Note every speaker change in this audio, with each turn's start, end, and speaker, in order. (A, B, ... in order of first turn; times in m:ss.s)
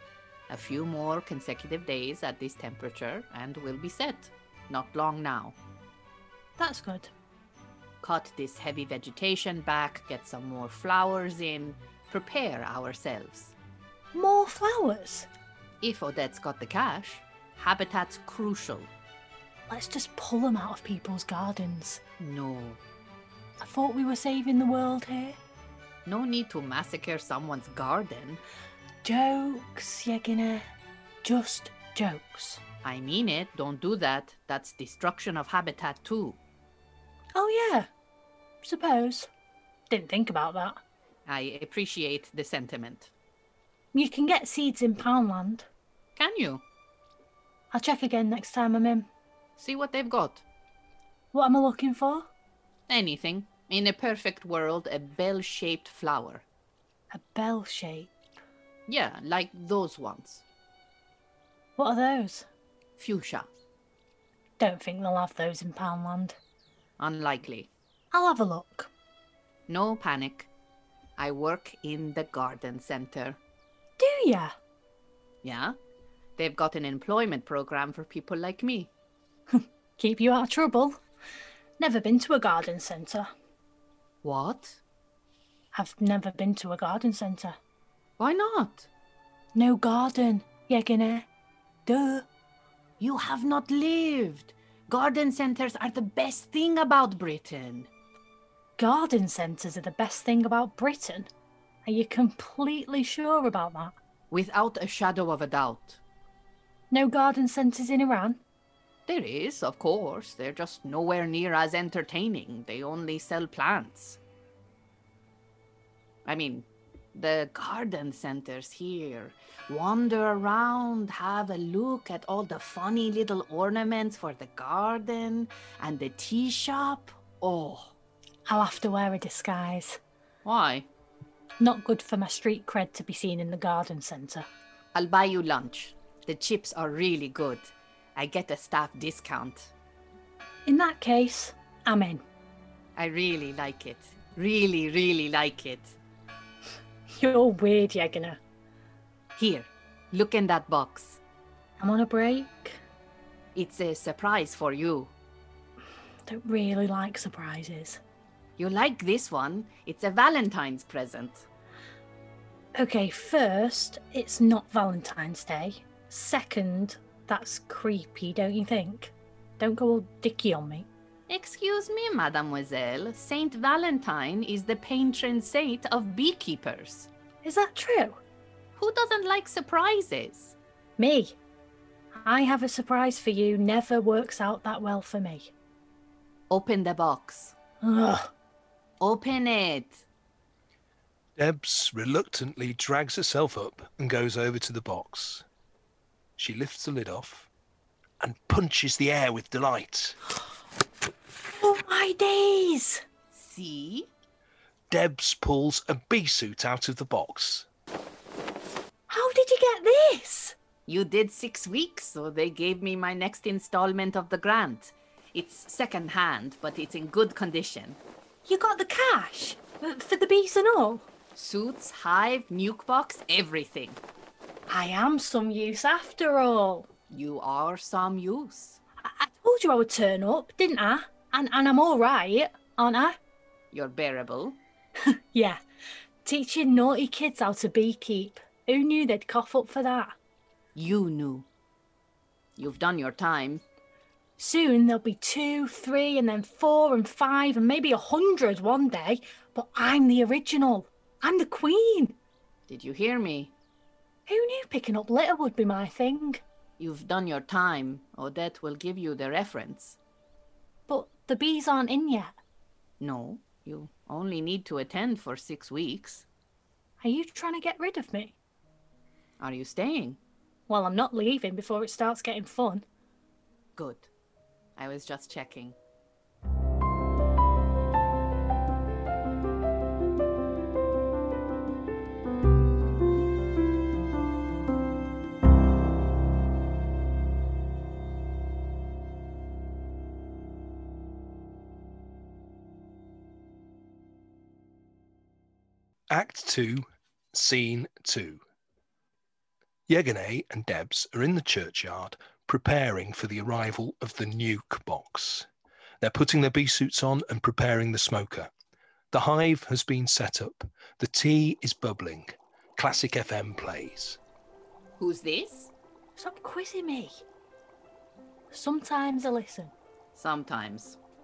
0:00.5-0:05.6 A
0:06.6-0:07.1 B
0:08.0-0:13.5 A
0:14.1-0:15.3 B
0:15.8-0:18.9 A
0:19.7-0:22.0 B
0:22.2-0:22.8 A
0:23.6-0:25.4 B
0:26.0-0:28.4 A
0:29.0-0:30.7 B
0:31.2-0:32.6 B
0:32.8-0:36.4 A
0:37.3-0:37.9 B
0:38.6-0:39.3 B
0:39.9-0:40.8 B
0:41.2-0:43.1 A
0:43.9-0:45.6 B
0:46.2-0:46.6 A
0:47.7-0:49.1 B
0:49.6-0:50.4 A
0:51.3-0:52.3 B
0:52.9-0:56.4 A
0:57.1-0:58.1 B
0:58.9-1:00.4 A
1:01.8-1:02.4 B
1:03.0-1:03.5 A
1:04.6-1:06.4 B
1:07.0-1:07.7 A
1:08.1-1:08.9 B
1:09.7-1:10.5 A
1:11.2-1:13.4 A
1:14.0-1:14.5 B
1:15.4-1:15.8 A
1:16.4-1:18.9 A
1:19.5-1:21.0 B
1:21.8-1:23.3 B
1:24.2-1:24.8 A
1:25.7-1:27.6 B
1:28.2-1:28.9 A
1:29.5-1:31.2 B
1:31.8-1:32.2 B
1:33.0-1:37.9 A
1:38.8-1:41.3 B
1:41.8-1:43.9 B
1:44.3-1:46.0 A
1:46.9-1:48.4 B
1:49.1-1:54.2 A
1:56.2-2:07.9 A
2:08.5-2:10.0 B
2:10.4-2:10.9 A
2:11.6-2:14.5 B
2:14.9-2:19.7 A
2:20.6-2:22.2 B
2:23.0-2:26.0 A
2:27.2-2:28.4 B
2:29.4-2:31.2 A
2:31.8-2:32.8 B
2:33.5-2:35.1 A
2:36.3-2:38.0 B
2:38.6-2:41.4 A
2:42.7-2:50.9 B
2:51.3-2:57.1 A
2:57.4-2:58.2 B
2:58.8-3:00.5 A
3:01.0-3:01.4 B
3:02.1-3:05.5 B
3:06.5-3:07.5 A
3:07.8-3:08.3 B
3:09.0-3:10.0 A
3:11.4-3:15.4 C
3:16.4-3:17.5 C
3:18.2-3:20.2 C
3:21.5-3:23.0 B
3:23.3-3:24.1 A
3:24.9-3:27.7 C
3:29.1-3:30.6 B
3:30.9-3:38.0 A
3:38.4-3:41.0 B
3:41.3-3:44.0 A
3:44.7-3:46.9 B
3:47.1-3:48.8 A
3:49.0-3:53.2 B
3:53.7-3:54.6 A
3:55.0-3:55.6 B
3:56.2-4:00.2 B
4:00.7-4:01.5 A
4:02.6-4:03.6 A
4:04.4-4:12.2 B
4:12.7-4:13.5 A
4:14.3-4:16.4 B
4:16.8-4:20.0 A
4:20.9-4:22.3 B
4:23.0-4:26.2 A
4:27.0-4:28.4 B
4:29.4-4:30.2 A
4:30.7-4:32.8 B
4:33.8-4:34.1 A
4:34.8-4:35.8 A
4:56.1-4:58.4 C
4:59.9-5:05.5 C
5:06.0-5:08.5 C
5:09.1-5:14.2 C
5:15.0-5:15.7 A
5:16.2-5:17.2 B
5:18.5-5:19.7 B
5:20.1-5:21.0 A